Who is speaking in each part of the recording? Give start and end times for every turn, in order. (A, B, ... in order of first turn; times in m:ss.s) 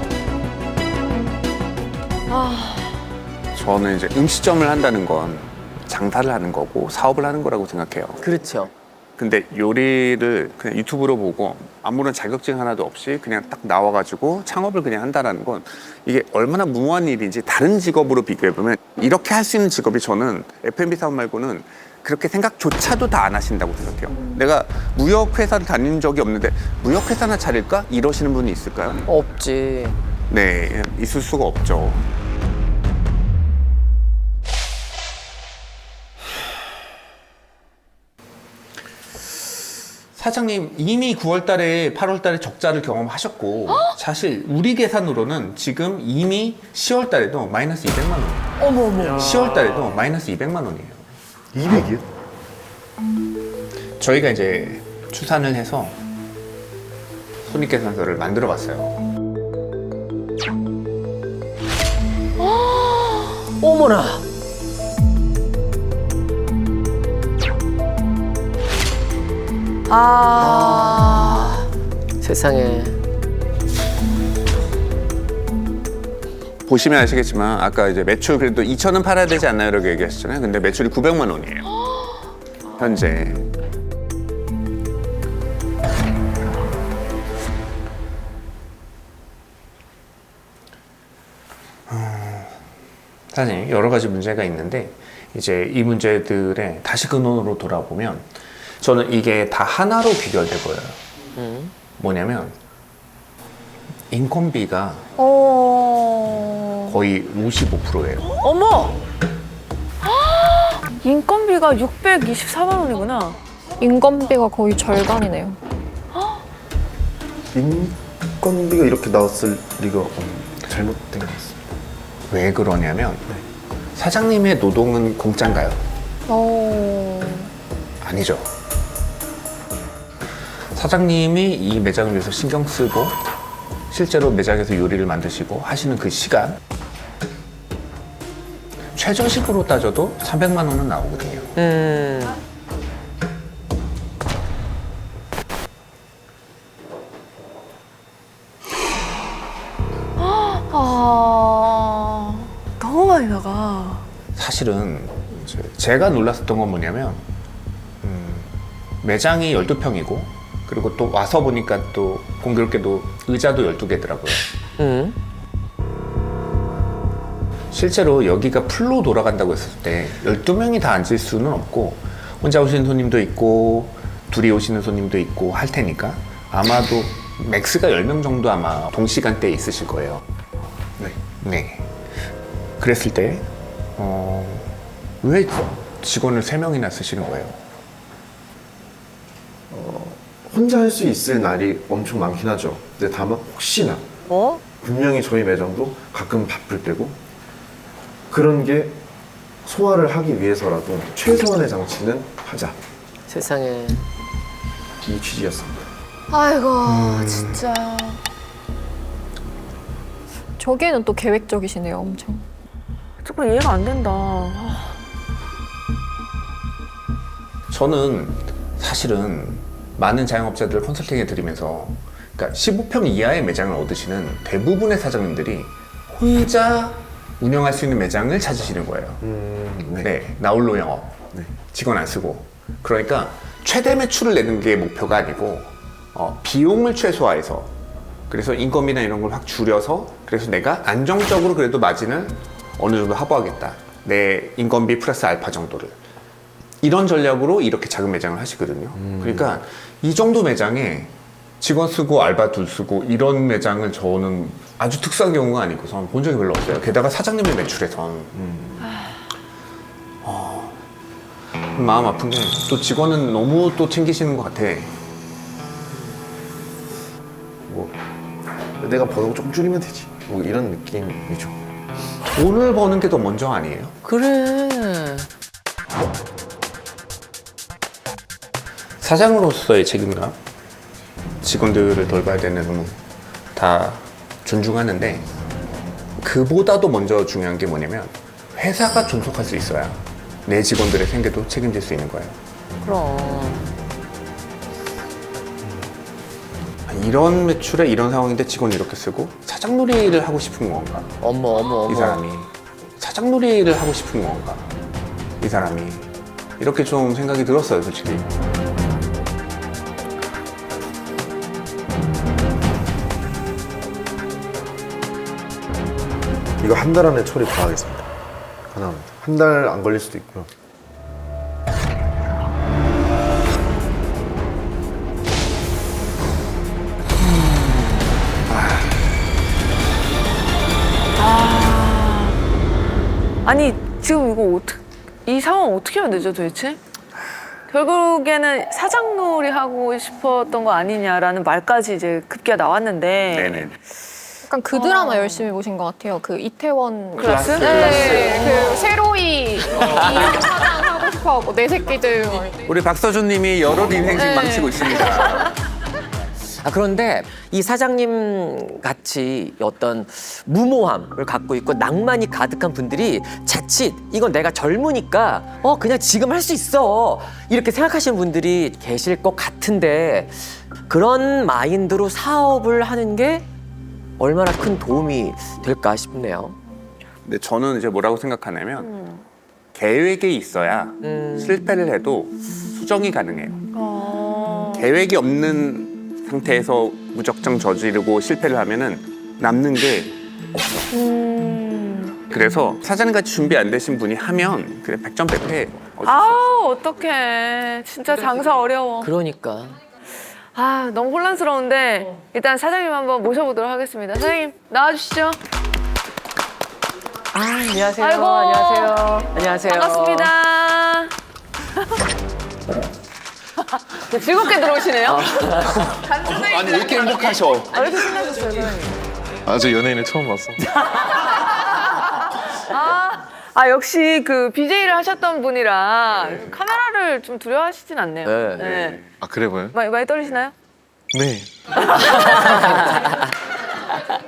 0:02.3-0:03.0 A
0:03.5-0:08.3 B
0:08.2-0:08.7 C
0:09.2-0:29.1 B
0:29.1-0:30.0 C
0:30.3-0:32.1 B
0:40.2-0:51.0 B
0:48.6-0:49.6 C
0:51.5-0:52.0 D
0:54.0-0:56.0 B
0:57.4-0:59.0 B
1:02.9-1:03.4 A
1:03.5-1:04.2 C
1:09.9-1:11.5 A
1:10.4-1:11.7 C
1:12.2-1:13.0 C
1:16.7-1:21.8 B
1:22.8-1:23.5 B
1:31.9-1:32.6 B
1:33.3-1:41.0 B
1:41.4-1:41.7 C
1:42.0-1:42.6 B
1:44.1-1:45.1 B
1:45.2-1:46.9 E
1:46.8-1:48.4 B
1:48.4-1:49.0 C
1:50.0-1:53.4 A
1:53.8-1:55.6 E
1:56.1-1:56.4 A
1:57.5-2:01.6 D
2:02.3-2:03.3 B
2:03.9-2:05.8 B
2:06.3-2:07.5 E
2:08.0-2:08.5 B
2:10.7-2:13.2 B
2:13.9-2:16.6 B
2:18.9-2:21.6 B
2:21.6-2:22.4 C
2:30.2-2:34.1 A
2:34.4-2:37.3 B
2:38.0-2:44.5 B
2:44.8-2:45.2 C
2:47.7-3:00.3 B
3:01.4-3:01.9 B
3:02.8-3:07.6 B
3:09.7-3:14.0 D
3:14.3-3:14.6 C
3:14.8-3:17.2 D
3:18.3-3:19.0 D
3:19.6-3:22.8 D
3:23.3-3:24.0 C
3:25.0-3:25.8 D
3:26.3-3:27.5 E
3:26.3-3:28.2 A
3:26.8-3:27.6 B
3:30.6-3:32.4 E
3:33.2-3:35.0 A
3:37.7-3:49.2 B
3:49.2-3:50.1 D
3:50.0-3:57.7 B
3:58.3-4:06.0 B
4:06.8-4:18.4 B
4:08.9-4:09.6 D
4:18.3-4:18.9 D
4:18.8-4:19.2 A
4:20.2-4:20.8 B
4:21.7-4:24.9 B
4:27.7-4:28.0 D
4:28.8-4:31.6 D
4:32.3-4:34.0 B
4:34.0-4:35.3 C
4:39.0-4:40.4 B
4:41.4-4:43.0 B
4:43.6-4:45.3 B
4:46.2-4:52.4 B
4:52.8-4:53.7 C
4:56.9-5:01.2 B
5:01.2-5:02.2 C
5:01.9-5:04.7 B
5:05.4-5:08.3 B
5:16.6-5:18.1 D
5:18.7-5:20.5 D
5:28.5-5:28.9 B
5:31.2-5:32.4 A
5:33.4-5:36.8 A
5:37.7-5:43.7 A
5:43.3-5:43.8 B
5:44.5-5:52.6 E
5:44.7-5:45.5 A
5:47.2-5:48.8 B
5:47.2-5:48.7 A
5:49.8-5:50.3 C
5:52.6-5:55.6 B
5:54.2-5:55.4 A
5:56.6-6:13.5 C
6:14.2-6:16.6 C
6:17.2-6:18.9 B
6:18.8-6:19.2 A
6:19.7-6:23.6 B
6:21.0-6:21.6 C
6:23.7-6:24.9 A
6:24.8-6:30.2 B
6:30.9-6:32.2 A
6:32.3-6:36.6 B
6:36.0-6:39.1 A
6:39.0-6:39.8 C
6:40.5-6:45.4 A
6:47.3-6:50.3 C
6:48.0-6:51.1 A
6:53.9-6:59.0 A
6:55.1-6:55.9 C
6:56.2-6:57.8 B
6:59.4-7:00.6 D
7:01.0-7:09.1 A
7:08.2-7:08.8 C
7:08.6-7:09.0 B
7:09.2-7:09.8 D
7:09.7-7:10.5 A
7:11.1-7:11.8 D
7:12.0-7:12.3 A
7:12.1-7:13.1 C